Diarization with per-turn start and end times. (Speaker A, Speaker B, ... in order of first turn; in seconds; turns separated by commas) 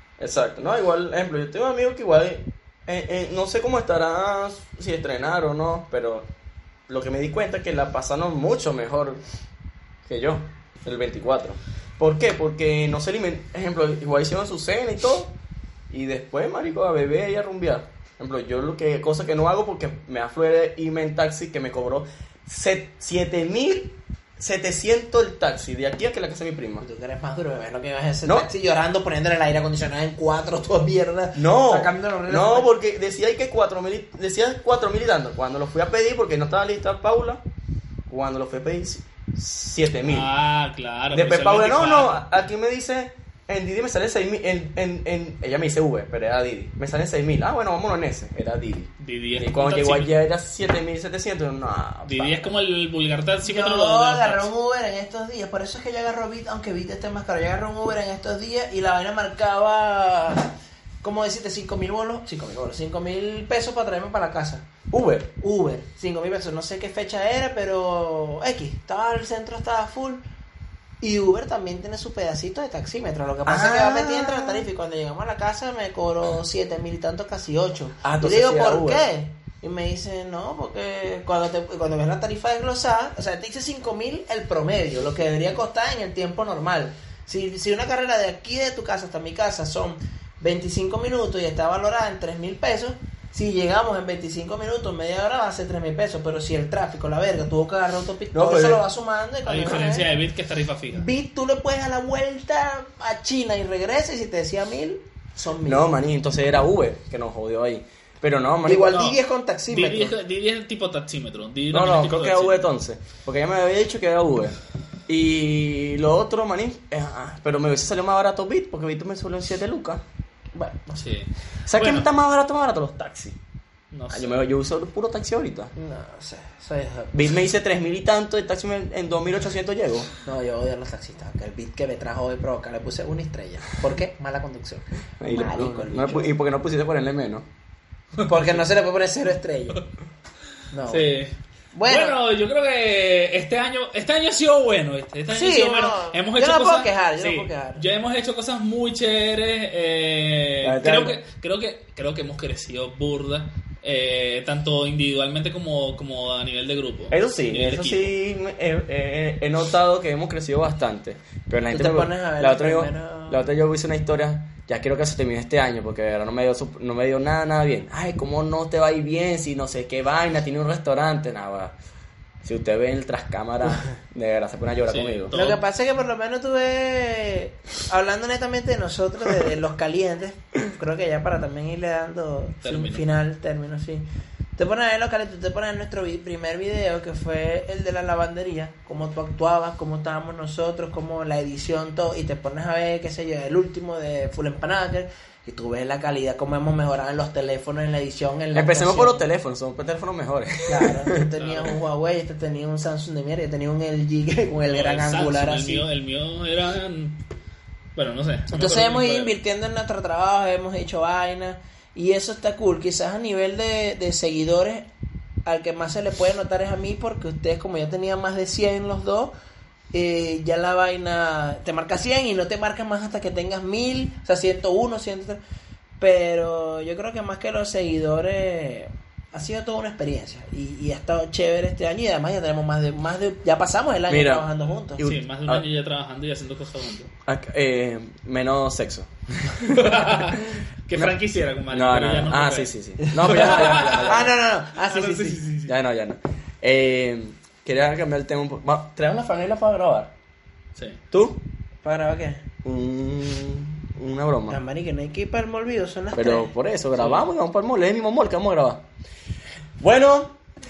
Speaker A: 0.2-6.3, Speaker A: 6.9-9.2, Speaker A: 10.1-15.3, Speaker A: 15.9-26.9, Speaker B: 26.8-32.7, Speaker A: 31.4-37.4, Speaker A: 38.1-40.3, Speaker C: 40.1-42.3, Speaker A: 41.1-52.5, Speaker C: 49.0-50.1, Speaker C: 52.1-54.5, Speaker B: 53.4-64.7, Speaker A: 64.9-65.3, Speaker B: 65.4-70.2, Speaker B: 71.0-100.1, Speaker A: 73.5-74.7, Speaker A: 78.0-79.0, Speaker A: 98.3-98.8, Speaker C: 99.5-101.1, Speaker B: 100.9-106.0, Speaker A: 105.7-109.0, Speaker B: 108.7-110.2, Speaker C: 108.9-112.7, Speaker A: 111.7-120.0, Speaker B: 120.5-121.0, Speaker C: 121.0-122.1, Speaker A: 121.7-123.4, Speaker C: 123.9-124.4, Speaker A: 124.1-125.7, Speaker B: 125.8-127.1, Speaker A: 127.1-130.1, Speaker B: 130.2-136.3, Speaker A: 135.2-137.5, Speaker C: 138.2-138.5, Speaker B: 138.2-139.8, Speaker B: 140.7-141.2, Speaker C: 140.9-158.1, Speaker B: 141.7-142.2, Speaker B: 145.3-147.8, Speaker A: 150.6-151.2, Speaker A: 157.1-171.8, Speaker B: 161.7-163.4, Speaker A: 172.4-175.3, Speaker C: 174.9-175.6, Speaker B: 175.3-184.1, Speaker C: 182.6-183.1, Speaker B: 184.6-199.3, Speaker A: 198.5-201.2, Speaker B: 200.7-205.9, Speaker C: 201.3-201.8, Speaker C: 204.7-207.2, Speaker C: 208.0-209.3, Speaker B: 208.5-214.9, Speaker B: 215.5-219.3, Speaker B: 219.9-225.4, Speaker B: 226.0-235.0, Speaker A: 234.1-235.7, Speaker C: 235.0-237.1, Speaker A: 237.3-241.2, Speaker C: 239.7-245.7, Speaker A: 241.7-244.3, Speaker B: 243.1-245.4, Speaker A: 245.7-250.1, Speaker A: 251.1-251.4, Speaker B: 251.8-252.4, Speaker A: 252.6-254.6, Speaker B: 254.5-256.6, Speaker A: 256.1-258.9, Speaker C: 256.9-257.3, Speaker A: 259.8-260.4